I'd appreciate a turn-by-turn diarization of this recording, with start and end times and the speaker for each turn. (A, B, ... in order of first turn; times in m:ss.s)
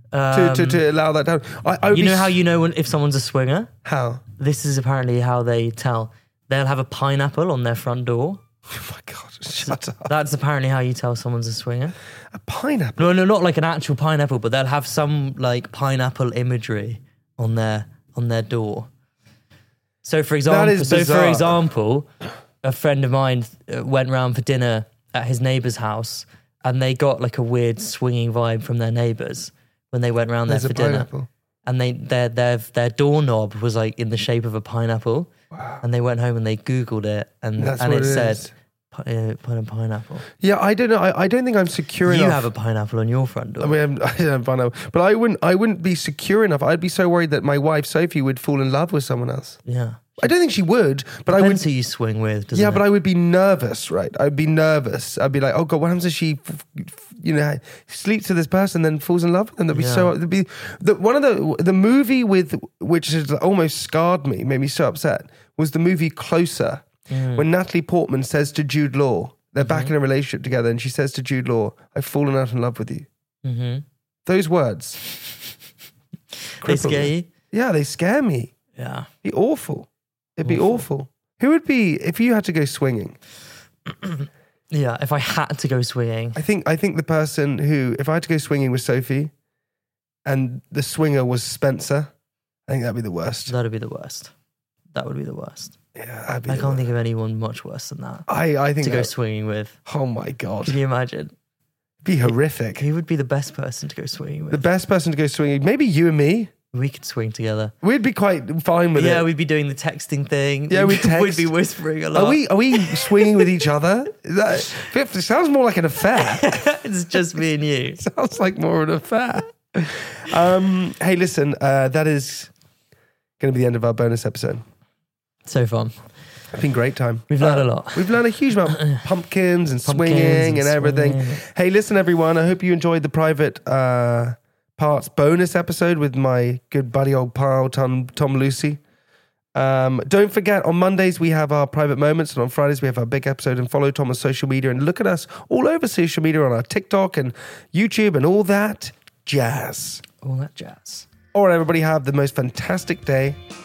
0:00.1-0:00.8 A
0:00.3-0:02.4 B
0:01.9-0:03.7 A
0:03.8-0:04.2 B
0:04.4-0:08.4 A
0:08.7-0:10.1 B
0:09.6-0:12.0 A
0:12.3-0:13.1 B
0:13.0-0:18.9 A
0:20.0-0:22.1 A
0:20.5-0:21.6 B
0:22.6-0:31.1 A
0:30.5-0:31.3 B
0:31.6-0:35.3 A
0:35.5-0:35.8 B
0:35.8-0:40.2 A
0:37.6-0:38.5 B
0:40.4-0:42.5 B
0:42.0-0:43.8 A
0:43.6-0:49.6 B
0:49.6-0:50.3 A
0:50.2-0:51.6 B
0:51.3-0:52.8 A
0:52.5-1:13.1 B
0:59.7-1:00.1 A
1:07.1-1:07.4 A
1:09.6-1:09.9 A
1:13.4-1:13.8 A
1:14.2-1:15.0 B
1:16.6-1:17.3 A
1:16.6-1:18.5 B
1:18.8-1:19.1 A
1:19.2-1:23.2 B
1:20.4-1:20.8 A
1:23.9-1:26.4 A
1:26.4-1:29.3 B
1:30.2-1:32.1 B
1:32.7-1:33.5 B
1:33.5-1:34.3 A
1:34.9-1:35.8 A
1:35.9-1:36.9 B
1:36.5-1:38.3 A
1:38.3-1:39.1 B
1:38.8-1:39.8 A
1:39.9-1:40.8 B
1:40.6-1:41.3 A
1:42.0-1:42.9 B
1:42.8-1:44.6 A
1:44.5-1:46.5 B
1:46.7-1:47.7 A
1:47.8-1:49.3 B
1:49.0-1:53.2 A
1:50.7-1:51.5 B
1:52.1-1:56.6 B
1:56.2-1:58.0 A
1:58.0-2:02.5 B
2:03.4-2:04.6 B
2:05.4-2:05.9 A
2:06.5-2:18.8 B
2:07.3-2:08.1 A
2:08.7-2:09.0 A
2:09.8-2:11.4 A
2:19.5-2:30.0 B
2:30.2-2:31.1 A
2:31.3-2:33.4 B